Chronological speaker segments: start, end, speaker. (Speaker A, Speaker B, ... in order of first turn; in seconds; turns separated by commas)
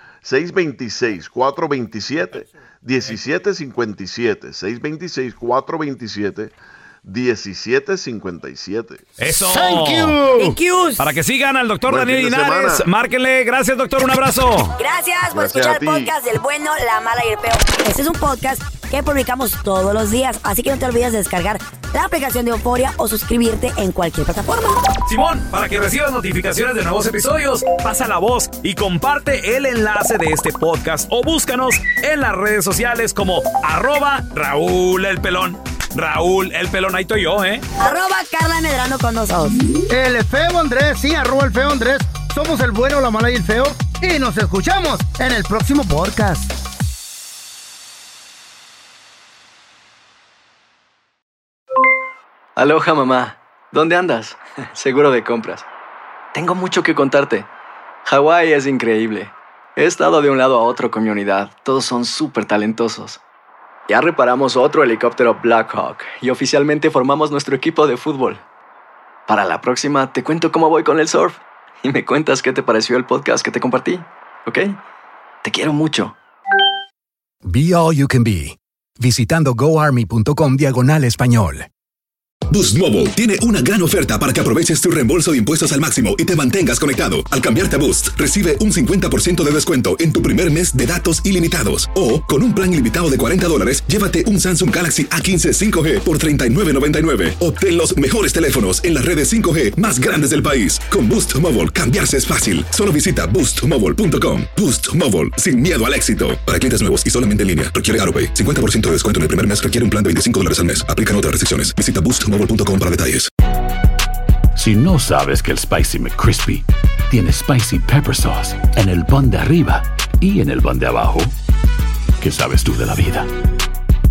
Speaker A: 0.2-6.5, Speaker A: 7.0-9.1, Speaker B: 9.2-10.2, Speaker C: 9.3-10.6, Speaker D: 10.3-11.1, Speaker B: 11.0-14.8, Speaker A: 11.9-12.9, Speaker D: 14.8-24.9, Speaker A: 15.3-16.1, Speaker B: 25.1-37.6, Speaker D: 37.8-39.6, Speaker C: 39.9-46.5, Speaker E: 52.6-55.7, Speaker E: 56.3-57.5, Speaker E: 58.0-63.2, Speaker E: 63.9-68.4, Speaker E: 69.3-74.8, Speaker E: 75.4-76.2, Speaker F: 77.5-81.7, Speaker G: 82.5-113.3, Speaker H: 114.5-121.3, Speaker H: 122.2-123.3